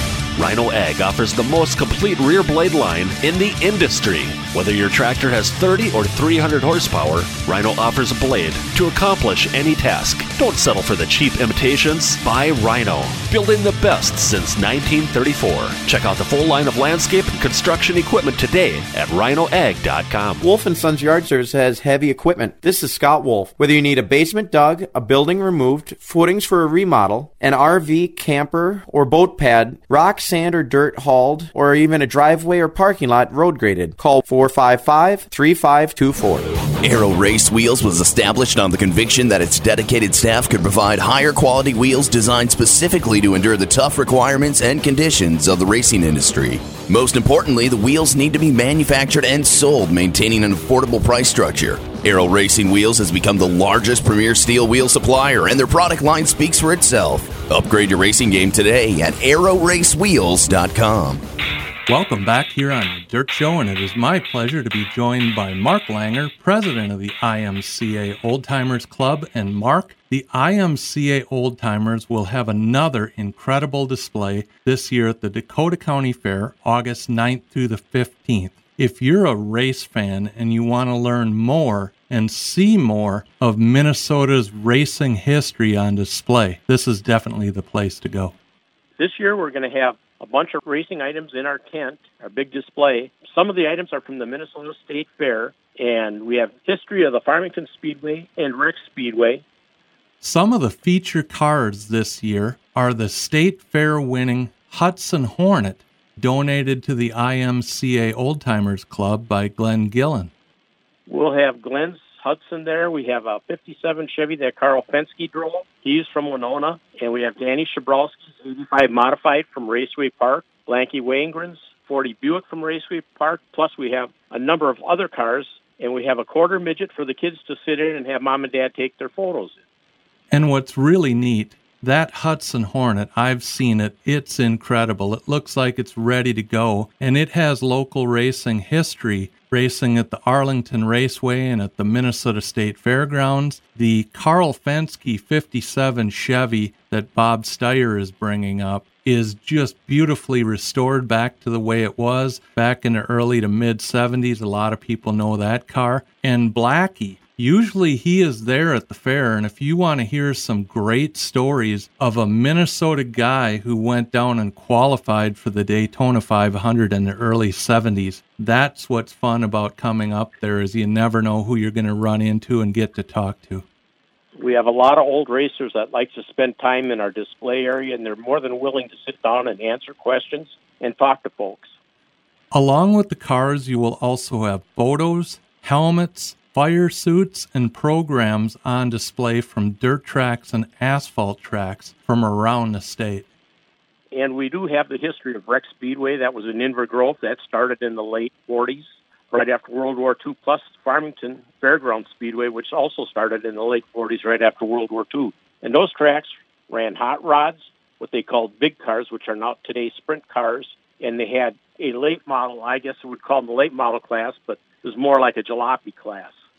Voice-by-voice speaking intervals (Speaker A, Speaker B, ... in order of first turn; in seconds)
Speaker A: 0.4-20.5
Speaker B: 20.4-36.6
Speaker C: 36.8-61.2
Speaker D: 61.9-88.3, 100.2-110.3, 130.3-173.7, 182.5-193.3
Speaker E: 89.0-99.4, 111.1-129.6, 174.4-181.7, 194.1-216.3